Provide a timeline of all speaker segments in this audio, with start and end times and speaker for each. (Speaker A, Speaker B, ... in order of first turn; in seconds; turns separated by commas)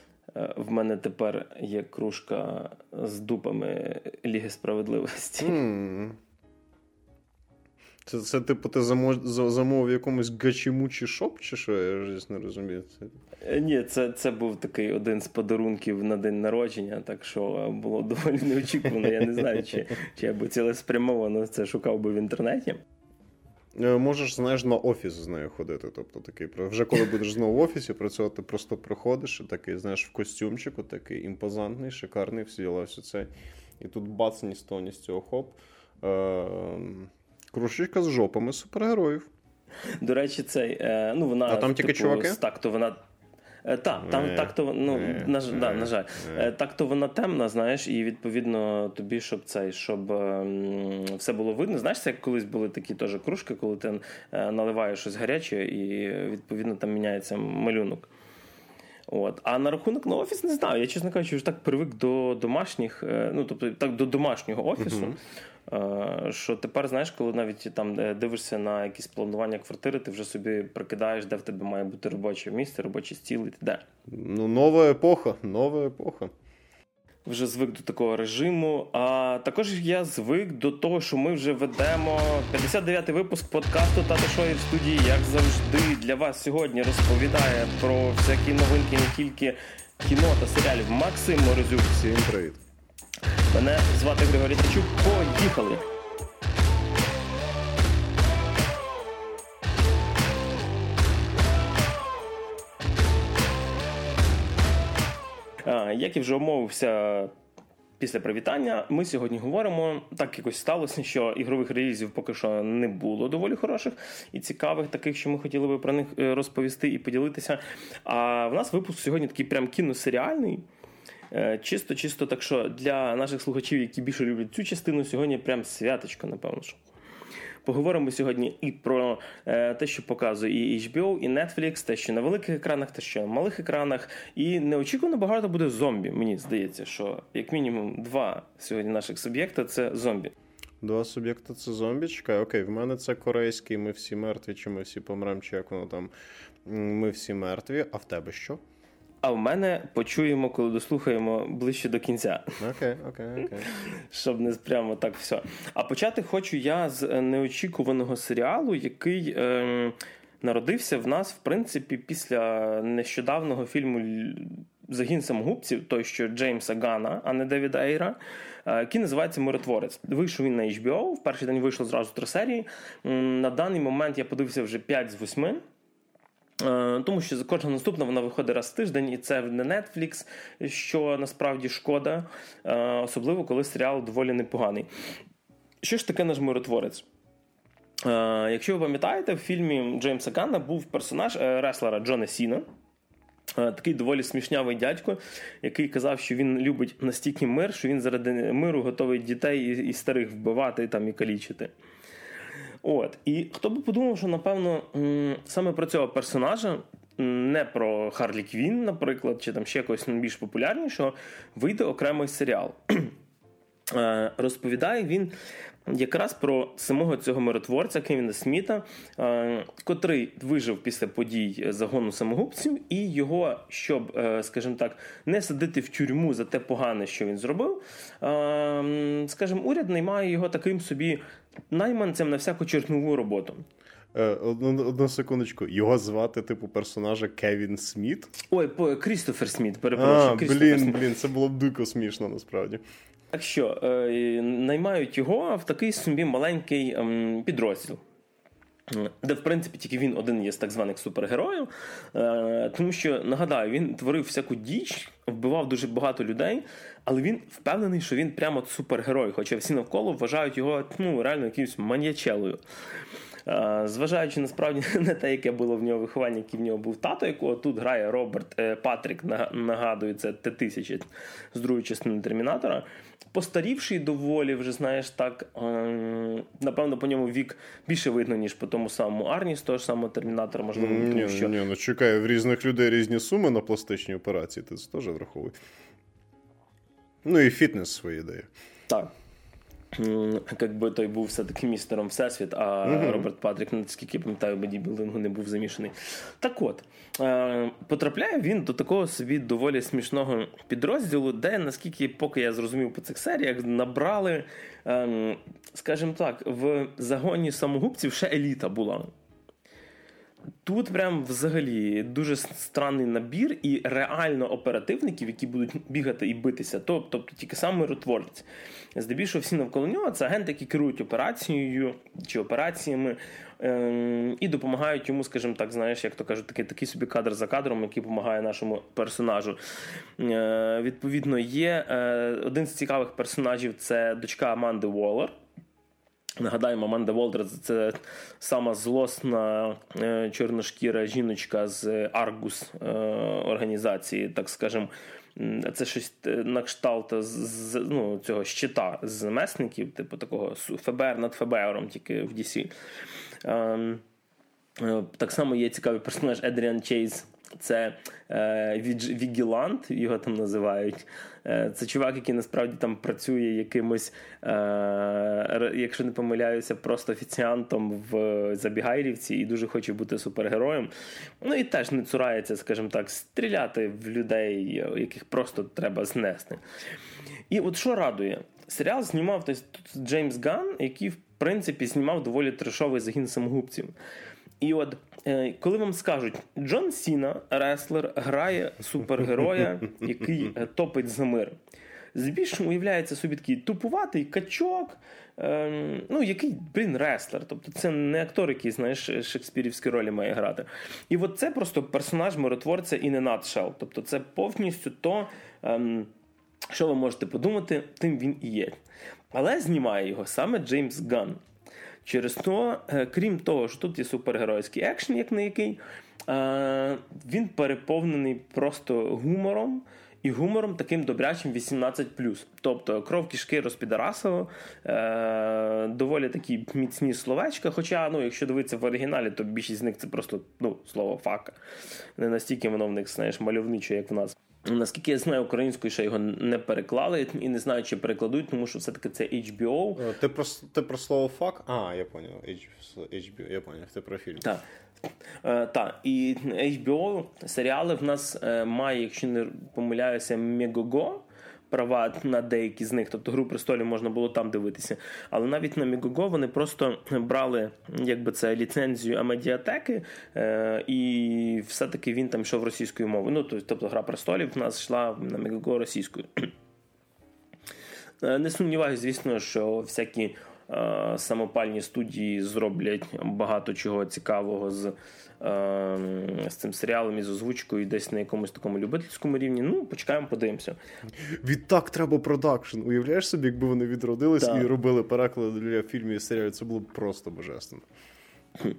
Speaker A: 0.3-5.6, Speaker B: 5.4-6.2, Speaker B: 8.1-13.1, Speaker A: 13.4-22.8, Speaker B: 19.0-19.8, Speaker B: 23.8-39.3, Speaker A: 40.0-43.0, Speaker B: 41.5-42.4, Speaker A: 43.6-58.1, Speaker B: 44.0-46.5, Speaker A: 59.1-73.8, Speaker B: 64.8-65.2, Speaker B: 74.1-76.3, Speaker A: 77.3-91.9, Speaker B: 91.8-92.6, Speaker A: 93.5-95.8, Speaker A: 105.6-107.3, Speaker A: 108.0-120.6, Speaker A: 121.3-126.8, Speaker A: 127.7-140.3, Speaker B: 140.8-146.1, Speaker B: 146.7-148.6, Speaker A: 149.2-152.6, Speaker B: 152.6-153.7, Speaker A: 153.6-175.6, Speaker A: 176.6-184.9, Speaker A: 185.8-187.1, Speaker A: 188.0-192.7, Speaker A: 193.6-201.7, Speaker A: 202.8-213.1, Speaker A: 213.9-215.3, Speaker A: 215.9-233.7, Speaker B: 234.1-238.4, Speaker A: 238.5-241.0, Speaker B: 240.0-242.8, Speaker A: 243.3-248.0, Speaker A: 248.9-262.6, Speaker A: 263.5-281.6, Speaker B: 280.8-285.6, Speaker B: 287.2-288.5, Speaker A: 289.9-309.1, Speaker B: 292.9-293.3, Speaker A: 310.6-329.6, Speaker A: 330.2-335.4, Speaker A: 336.4-352.7, Speaker A: 353.4-354.0, Speaker A: 354.8-376.6, Speaker A: 377.5-383.9, Speaker A: 384.6-391.6, Speaker A: 392.1-406.1, Speaker A: 406.7-408.8, Speaker A: 409.3-411.4, Speaker A: 412.1-431.6, Speaker A: 432.2-440.1, Speaker B: 440.0-444.5, Speaker A: 445.4-466.5, Speaker A: 468.2-480.8, Speaker B: 481.3-487.9, Speaker A: 484.4-484.7